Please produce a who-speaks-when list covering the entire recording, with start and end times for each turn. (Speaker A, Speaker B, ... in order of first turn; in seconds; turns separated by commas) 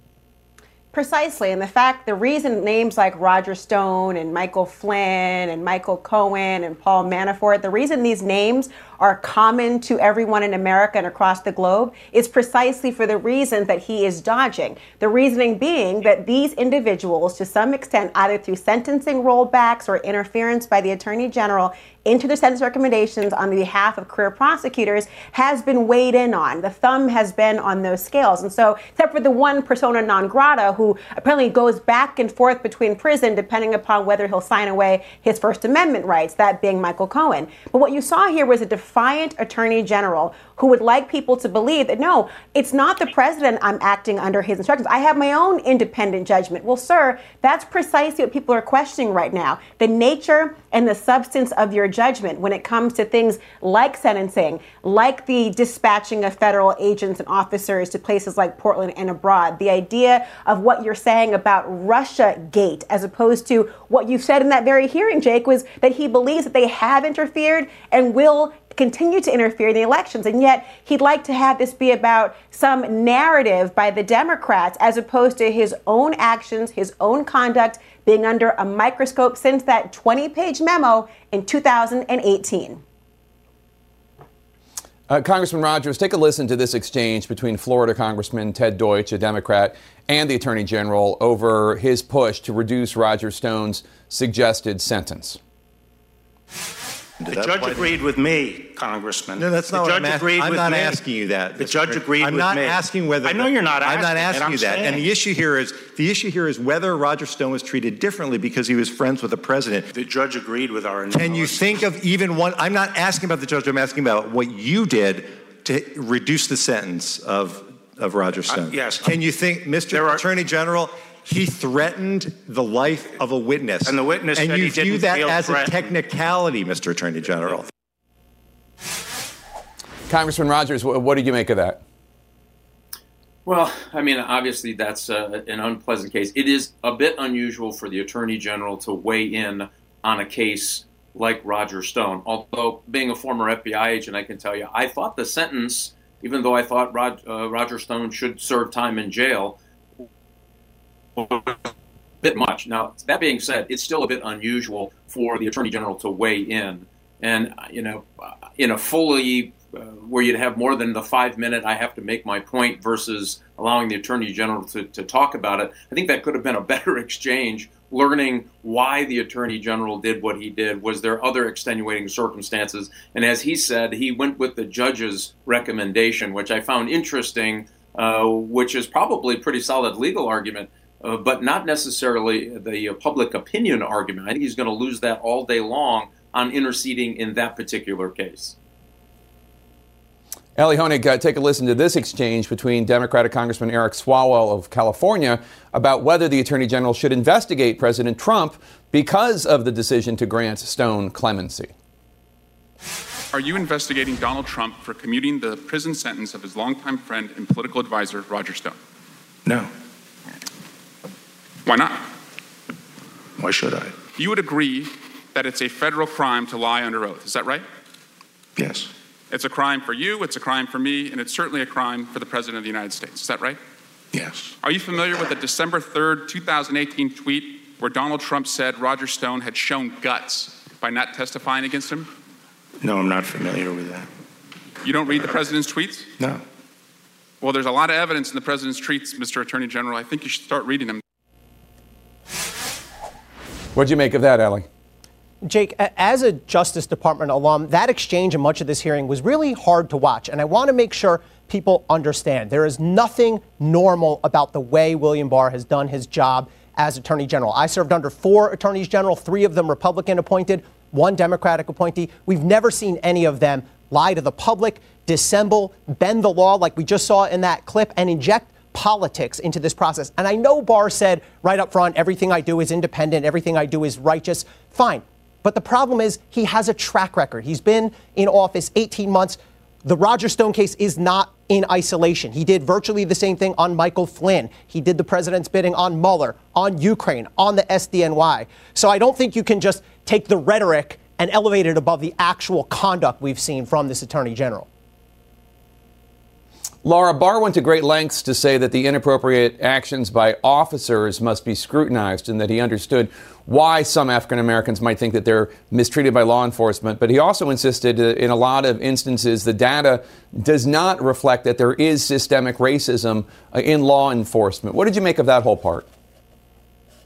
Speaker A: 0.9-82.8, Speaker B: 85.1-95.4, Speaker C: 97.2-97.9, Speaker D: 97.2-101.0, Speaker C: 99.4-109.9, Speaker D: 101.6-105.1, Speaker D: 109.9-111.8, Speaker C: 111.1-127.7, Speaker D: 118.5-119.2, Speaker D: 119.9-120.3, Speaker D: 123.8-125.9, Speaker B: 130.1-131.8, Speaker E: 133.5-149.6, Speaker E: 152.2-188.6, Speaker B: 190.6-201.7, Speaker F: 203.3-208.8, Speaker D: 209.5-209.7, Speaker F: 211.7-212.0, Speaker D: 213.4-214.0, Speaker F: 214.2-217.6, Speaker D: 218.6-218.9, Speaker F: 219.3-223.6, Speaker D: 224.1-224.6, Speaker F: 224.6-232.1, Speaker D: 232.8-234.1, Speaker F: 234.8-236.1, Speaker F: 237.4-241.0, Speaker B: 243.8-244.7, Speaker G: 245.4-294.7, Speaker B: 296.8-315.9